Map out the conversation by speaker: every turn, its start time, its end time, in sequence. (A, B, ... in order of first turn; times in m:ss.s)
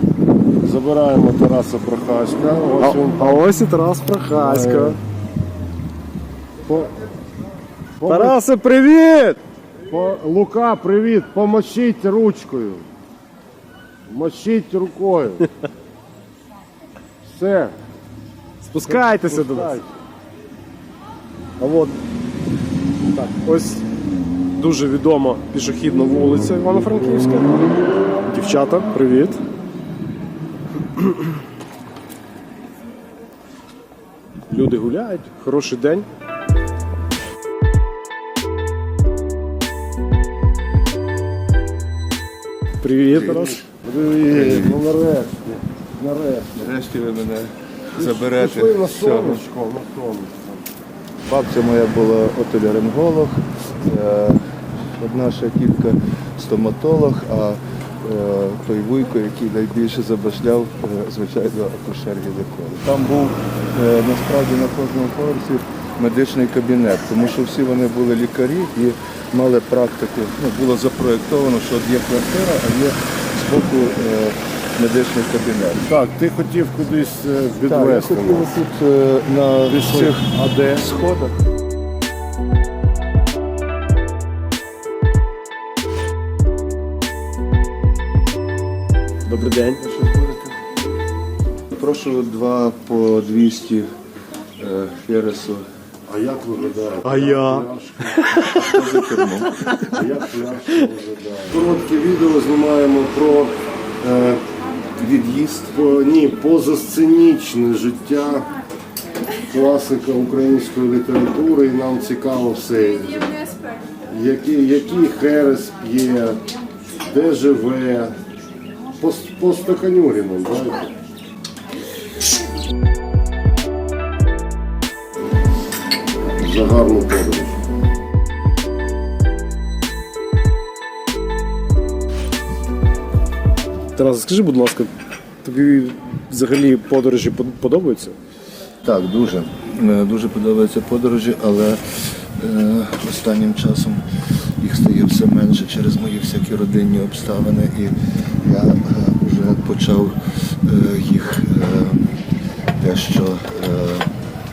0:00.6-0:03.5 A
0:02.8-0:05.0 B
0:04.4-0:05.0 A
0:08.0-0:08.4 A
0:08.0-0:09.4 B
0:09.9-0:12.9 A
0:14.1-0:15.4 A
0:17.2-0:17.7 A
0:18.6-0:19.8 B
0:18.8-0:19.8 A
0:21.6-0:21.9 B
0:23.1-0:23.8 B
0:24.6-0:27.7 B
0:28.3-0:29.4 B
0:34.5-0:36.0 B
0:42.8-0:43.6 B
0:43.1-0:43.5 C
0:43.2-0:46.6 A
0:44.3-0:44.8 C
0:46.5-0:49.4 C
0:47.9-0:50.7 A
0:51.2-0:54.4 C
0:55.0-1:15.9 C
1:15.8-1:18.6 A
1:17.6-1:21.4 C
1:19.6-1:20.8 A
1:29.3-1:29.8 B
1:29.8-1:30.6 C
1:31.7-1:33.9 C
1:34.6-1:35.6 C
1:36.1-1:38.2 A
1:37.0-1:37.7 B
1:38.4-1:38.8 B
1:38.4-1:39.9 C
1:39.9-1:44.4 A
1:45.0-1:45.7 C
1:45.7-1:48.5 A
1:49.5-1:53.4 A
1:54.1-1:56.4 A
1:57.0-1:58.1 A
1:59.0-2:00.9 A
2:06.4-2:07.6 A
2:14.0-2:14.9 B
2:15.4-2:18.1 B
2:18.8-2:24.0 C
2:24.6-2:32.1 C
2:32.8-2:34.1 C